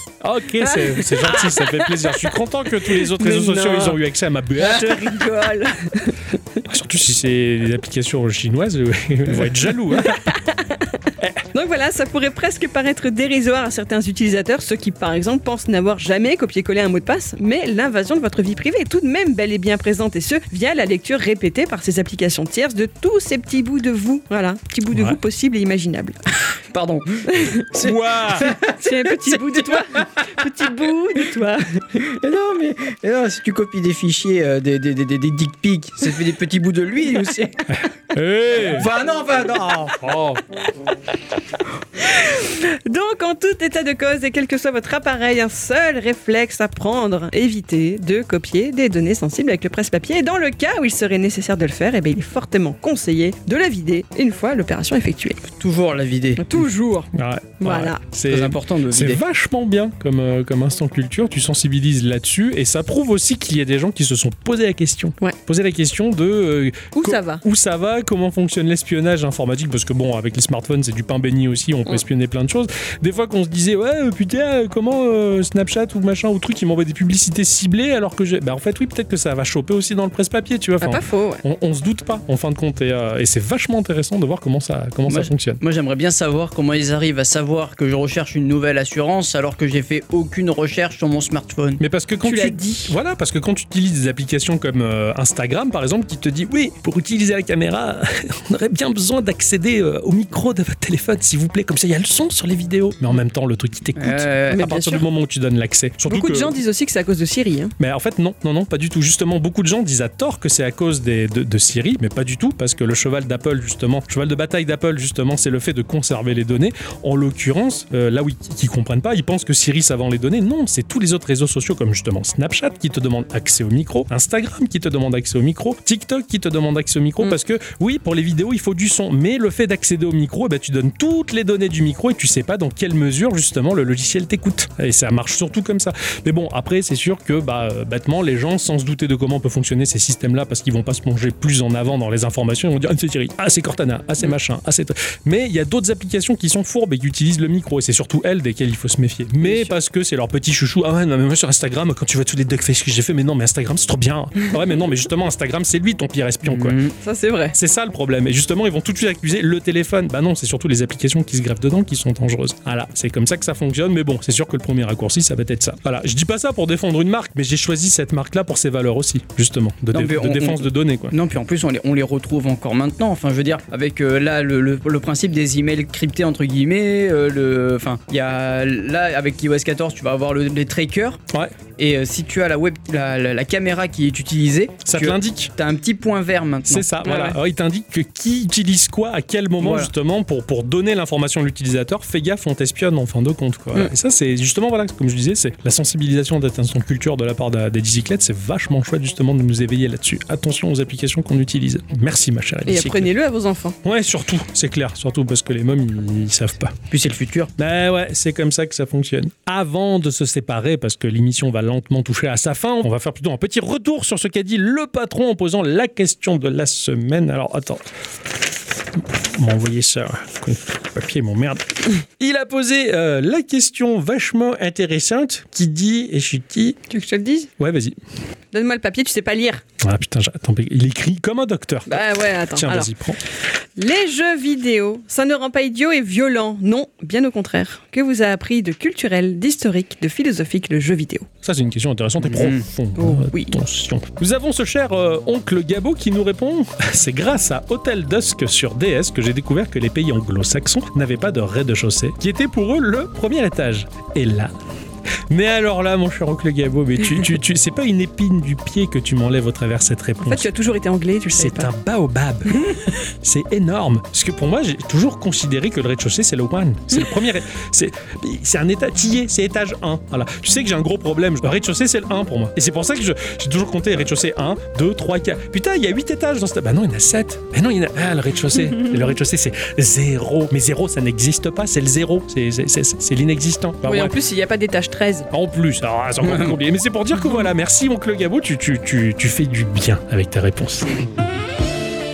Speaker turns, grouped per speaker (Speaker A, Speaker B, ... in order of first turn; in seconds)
Speaker A: 0.2-5.2, 6.6-10.3, 24.9-25.2, 27.7-28.5, 37.7-38.9, 39.9-40.4, 57.1-85.6, 91.8-106.5, 107.8-156.8, 157.5-171.1, 184.8-185.5, 186.7-203.1, 203.8-206.8, 207.6-217.8, 218.9-226.8, 227.6-228.0, 229.8-233.2, 241.4-254.5, 255.3-260.5, 261.4-284.1, 285.3-291.0
Speaker B: 0.6-4.0, 4.6-6.6, 9.9-10.9, 11.5-26.2, 27.3-27.7, 28.3-32.1, 42.0-55.4, 56.4-58.0, 66.9-67.4, 80.8-81.4, 92.2-92.9, 104.5-105.0, 106.1-107.7, 149.4-149.7, 157.0-157.6, 187.0-187.3, 202.7-203.8, 226.9-227.5, 228.5-229.6, 231.9-232.9, 233.8-241.3, 243.0-243.6, 260.2-261.7, 283.8-285.3
Speaker C: 26.7-30.3, 32.0-37.8, 38.5-40.0, 55.5-56.6, 58.3-59.2, 85.1-91.8, 104.0-104.7, 156.4-156.9, 169.9-181.2, 181.8-186.9, 189.6-189.9, 206.9-207.5, 242.2-242.6, 286.2-286.5